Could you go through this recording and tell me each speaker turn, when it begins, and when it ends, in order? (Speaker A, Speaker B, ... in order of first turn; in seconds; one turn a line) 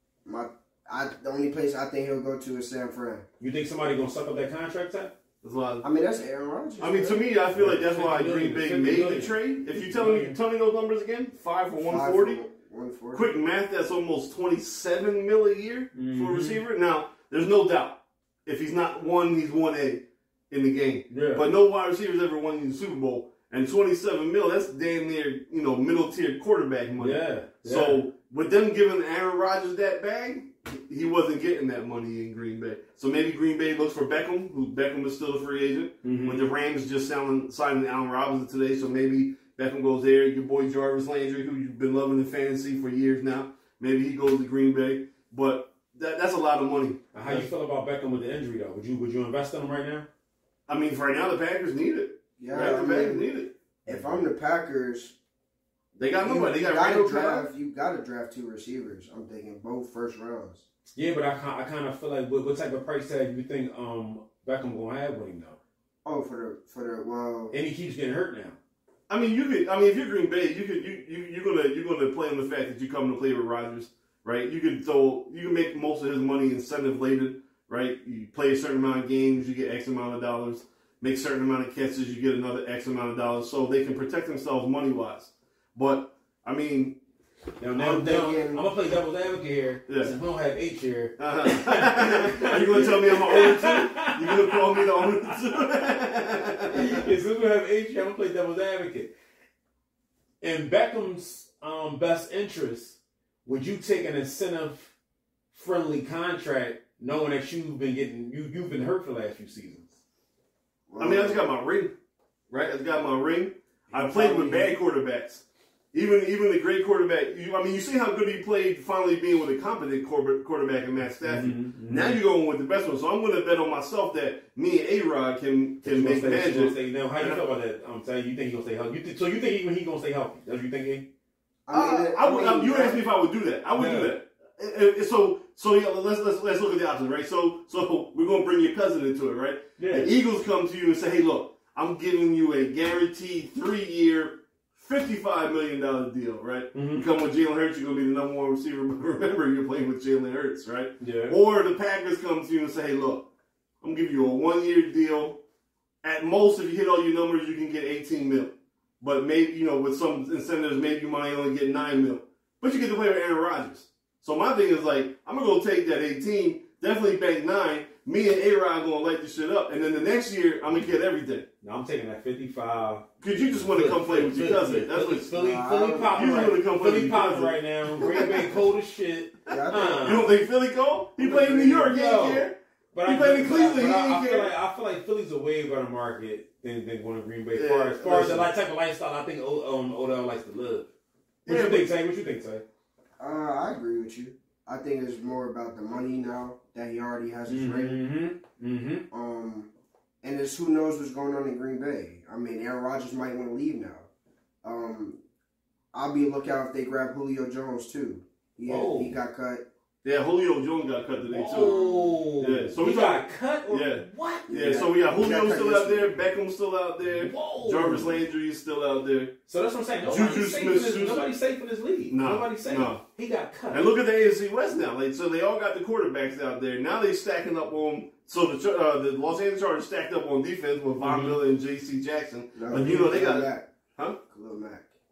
Speaker A: 0.2-3.2
Speaker B: 3.4-5.1
Speaker C: 5.4-5.8
Speaker A: 5.8-7.3
Speaker C: 6.8-12.4
Speaker B: 7.5-10.3
Speaker A: 11.8-13.3
Speaker C: 13.1-47.5
Speaker B: 15.9-16.6
Speaker B: 21.1-21.5
Speaker B: 27.0-28.0
Speaker B: 36.0-36.5
Speaker B: 47.1-50.1
Speaker C: 50.7-54.3
Speaker A: 52.4-53.3
Speaker A: 53.9-55.1
Speaker C: 56.0-57.5
Speaker A: 56.2-60.6
Speaker B: 60.9-65.6
Speaker A: 66.0-67.5
Speaker B: 67.5-68.6
Speaker C: 69.1-87.0
Speaker B: 87.6-94.8
Speaker A: 87.7-88.6
Speaker C: 89.9-90.1
Speaker C: 91.2-97.0
Speaker B: 96.7-99.1
Speaker B: 100.4-104.9
Speaker B: 105.5-109.9
Speaker A: 110.9-111.4
Speaker C: 111.0-111.9
Speaker C: 112.5-127.4
Speaker A: 113.9-114.6
Speaker B: 121.2-122.2
Speaker B: 125.8-131.1
Speaker A: 131.7-133.0
Speaker C: 131.7-153.3
Speaker B: 133.7-134.1
Speaker B: 139.8-140.1
Speaker B: 146.7-147.1
Speaker B: 151.0-151.3
Speaker C: 153.8-155.4
Speaker C: 156.0-171.5
Speaker B: 171.6-180.3
Speaker C: 173.2-175.3
Speaker A: 175.3-176.3
Speaker C: 176.1-178.6
Speaker A: 178.0-178.5
Speaker A: 179.5-180.3
Speaker C: 179.8-184.5
Speaker A: 181.2-181.9
Speaker B: 181.8-190.9
Speaker C: 187.5-188.5
Speaker C: 191.4-191.9
Speaker B: 191.4-192.6
Speaker A: 193.2-198.0
Speaker B: 197.5-199.0
Speaker A: 199.1-199.7
Speaker A: 200.2-204.1
Speaker A: 204.6-205.2
Speaker A: 205.9-209.6
Speaker B: 208.7-209.2
Speaker C: 210.0-219.3
Speaker B: 211.3-214.8
Speaker A: 211.5-212.2
Speaker A: 214.5-216.1
Speaker B: 217.0-218.2
Speaker B: 219.4-223.9
Speaker C: 220.0-221.3
Speaker C: 222.1-223.0
Speaker C: 223.7-234.2
Speaker B: 231.0-231.4
Speaker A: 232.6-233.7
Speaker B: 232.7-233.1
Speaker A: 234.2-234.9